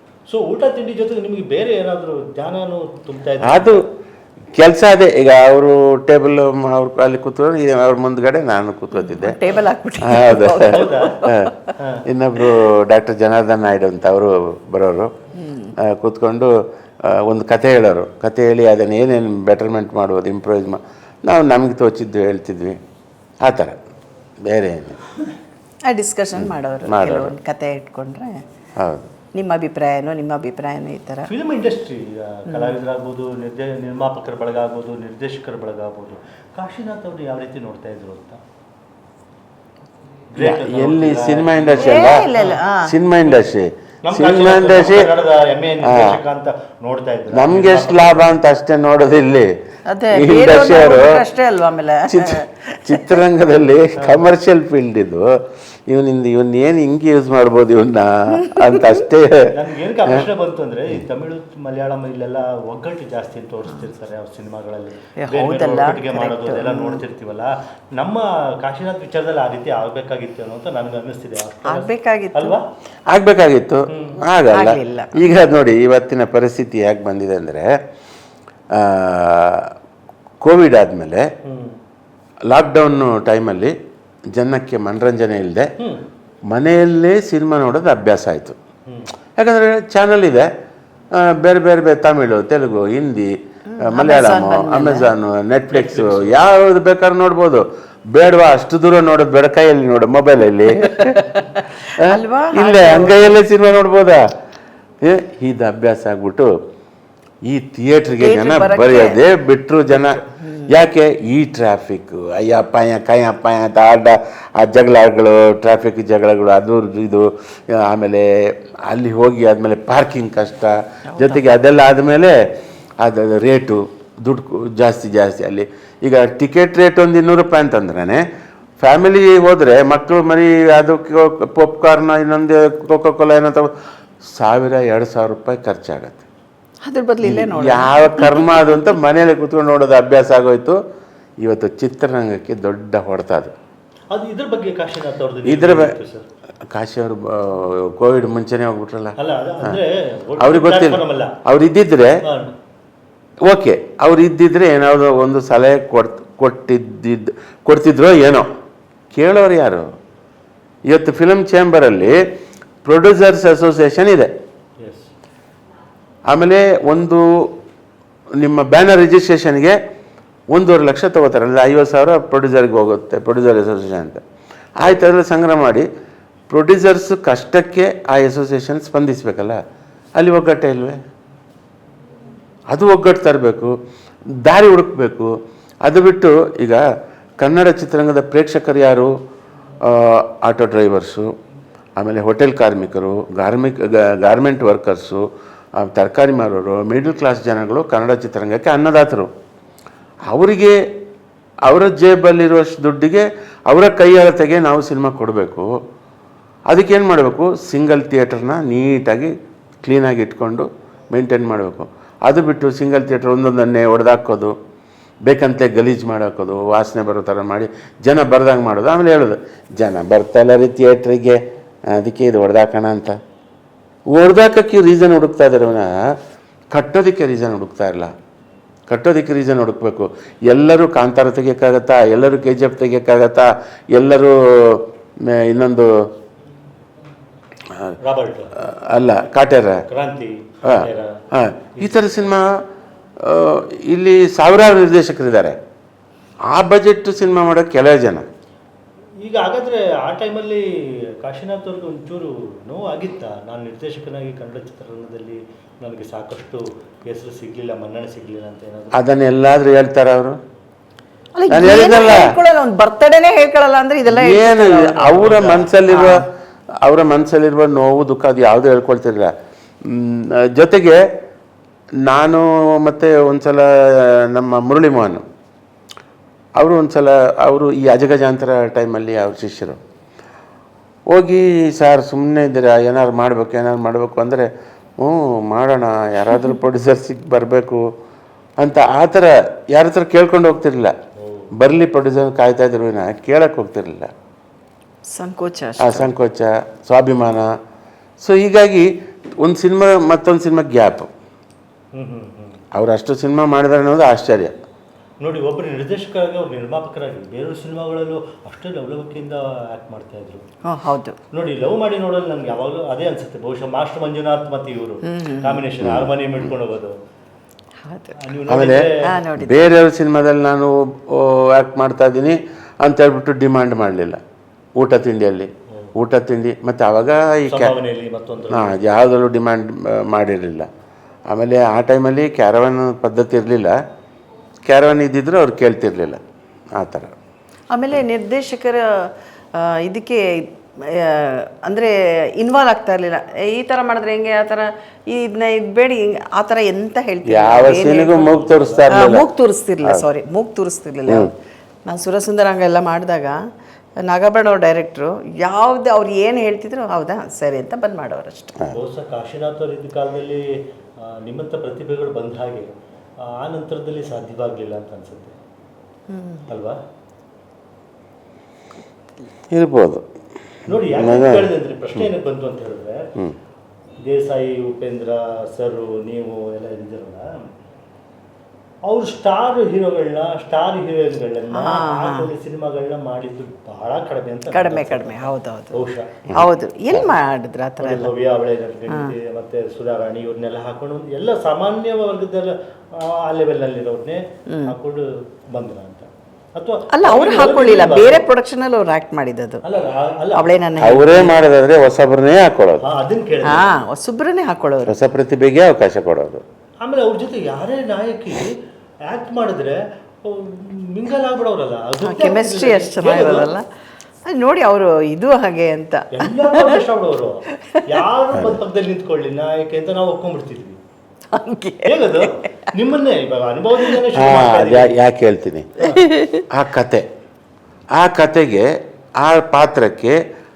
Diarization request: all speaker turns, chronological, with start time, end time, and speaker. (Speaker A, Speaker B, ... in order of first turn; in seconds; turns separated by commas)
Speaker A: 0.3-3.8, Speaker B: 3.4-3.8, Speaker B: 4.5-9.4, Speaker C: 9.0-11.7, Speaker B: 10.0-11.5, Speaker A: 10.5-11.2, Speaker A: 11.8-12.1, Speaker B: 12.1-15.1, Speaker C: 15.4-15.7, Speaker B: 15.8-22.8, Speaker B: 23.4-23.8, Speaker B: 24.4-25.0, Speaker C: 25.9-28.4, Speaker B: 26.3-27.3, Speaker B: 28.8-29.1, Speaker C: 29.3-31.3, Speaker A: 31.3-38.4, Speaker C: 32.5-32.8, Speaker A: 40.3-42.6, Speaker B: 40.4-42.3, Speaker C: 41.8-42.9, Speaker B: 42.8-45.2, Speaker A: 44.0-48.3, Speaker B: 45.8-46.2, Speaker B: 47.3-49.5, Speaker C: 49.9-53.0, Speaker B: 50.1-51.2, Speaker B: 52.1-55.3, Speaker A: 54.0-54.2, Speaker B: 55.9-60.2, Speaker C: 58.4-58.9, Speaker A: 59.5-72.6, Speaker C: 65.2-67.0, Speaker C: 71.6-72.5, Speaker B: 73.1-77.8, Speaker A: 73.9-74.2, Speaker C: 74.5-75.1, Speaker B: 78.7-79.7, Speaker B: 80.4-81.3, Speaker A: 81.4-81.8, Speaker B: 82.5-83.8, Speaker B: 84.3-85.7, Speaker A: 85.8-86.0, Speaker B: 86.5-88.6, Speaker B: 89.4-90.5, Speaker B: 91.1-101.2, Speaker C: 93.7-95.1, Speaker A: 95.7-96.5, Speaker C: 100.8-103.4, Speaker B: 102.0-104.3, Speaker B: 105.0-106.6, Speaker B: 107.4-122.4, Speaker C: 108.2-109.2, Speaker C: 110.3-110.7, Speaker C: 121.1-121.4, Speaker B: 123.0-128.2, Speaker B: 128.8-136.2, Speaker C: 136.8-138.4, Speaker B: 137.2-140.8, Speaker B: 141.4-143.5, Speaker A: 144.1-146.2, Speaker B: 145.4-146.0, Speaker B: 146.7-149.8, Speaker A: 149.2-151.4, Speaker B: 150.4-152.2, Speaker A: 152.2-152.5, Speaker B: 153.4-158.5, Speaker B: 159.1-159.9, Speaker B: 160.9-162.2, Speaker B: 162.8-164.3, Speaker A: 164.8-165.1, Speaker B: 166.3-167.6, Speaker B: 168.3-169.8, Speaker B: 170.5-174.2, Speaker B: 174.8-175.9, Speaker B: 176.5-179.6, Speaker B: 180.2-181.0, Speaker B: 182.7-183.8, Speaker B: 184.3-186.8, Speaker B: 187.4-189.1, Speaker B: 189.8-191.3, Speaker B: 192.0-199.3, Speaker B: 200.3-200.8, Speaker B: 201.6-205.7, Speaker B: 206.7-214.6, Speaker B: 215.2-223.2, Speaker B: 224.1-226.1, Speaker B: 226.7-228.1, Speaker B: 228.9-235.9, Speaker B: 237.7-238.0, Speaker A: 238.0-238.5, Speaker B: 238.6-239.8, Speaker A: 239.9-241.2, Speaker B: 240.6-242.7, Speaker B: 243.2-245.6, Speaker B: 246.5-248.3, Speaker A: 249.2-259.0, Speaker B: 258.9-260.4, Speaker C: 261.4-266.2, Speaker B: 261.5-262.3, Speaker B: 264.1-266.2, Speaker A: 265.2-265.6, Speaker B: 266.8-271.1, Speaker B: 272.0-275.2, Speaker B: 276.6-279.8, Speaker B: 281.1-287.9, Speaker B: 288.6-291.0, Speaker A: 291.2-291.5, Speaker B: 291.5-294.1, Speaker C: 295.1-296.1, Speaker B: 295.8-297.5, Speaker B: 298.2-301.1, Speaker A: 301.9-302.6, Speaker B: 302.7-304.5, Speaker A: 305.2-310.4, Speaker C: 310.6-311.1, Speaker A: 311.3-317.0, Speaker C: 315.0-315.6, Speaker B: 315.8-316.5, Speaker C: 317.8-318.2, Speaker A: 318.1-319.0, Speaker B: 318.5-324.2, Speaker C: 319.0-319.6, Speaker B: 324.8-327.8, Speaker A: 327.5-328.8, Speaker B: 328.5-330.7, Speaker B: 331.3-333.8, Speaker B: 334.6-336.2, Speaker B: 336.7-337.1, Speaker C: 337.7-348.4, Speaker B: 347.2-349.3, Speaker A: 348.2-349.0, Speaker C: 348.9-351.3, Speaker C: 351.9-353.4, Speaker C: 354.0-358.6, Speaker A: 358.7-365.4, Speaker C: 366.1-366.5, Speaker A: 366.5-366.8, Speaker B: 369.5-370.0, Speaker A: 370.7-373.1, Speaker B: 370.7-372.0, Speaker A: 374.0-377.5, Speaker A: 378.9-386.1, Speaker C: 381.5-382.3, Speaker C: 384.5-388.1, Speaker B: 386.3-387.0, Speaker A: 387.8-398.2, Speaker C: 388.9-389.1, Speaker C: 394.5-394.7, Speaker C: 396.9-399.6, Speaker A: 399.6-400.5, Speaker C: 400.3-401.4, Speaker B: 400.8-402.9, Speaker A: 402.8-403.7, Speaker C: 403.4-405.0, Speaker B: 404.9-406.4, Speaker A: 406.8-413.5, Speaker C: 412.0-413.6, Speaker C: 414.2-416.8, Speaker A: 416.1-420.8, Speaker C: 421.3-422.7, Speaker A: 421.9-425.0, Speaker B: 424.1-426.0, Speaker C: 425.8-426.5, Speaker B: 426.5-427.1, Speaker B: 427.9-430.2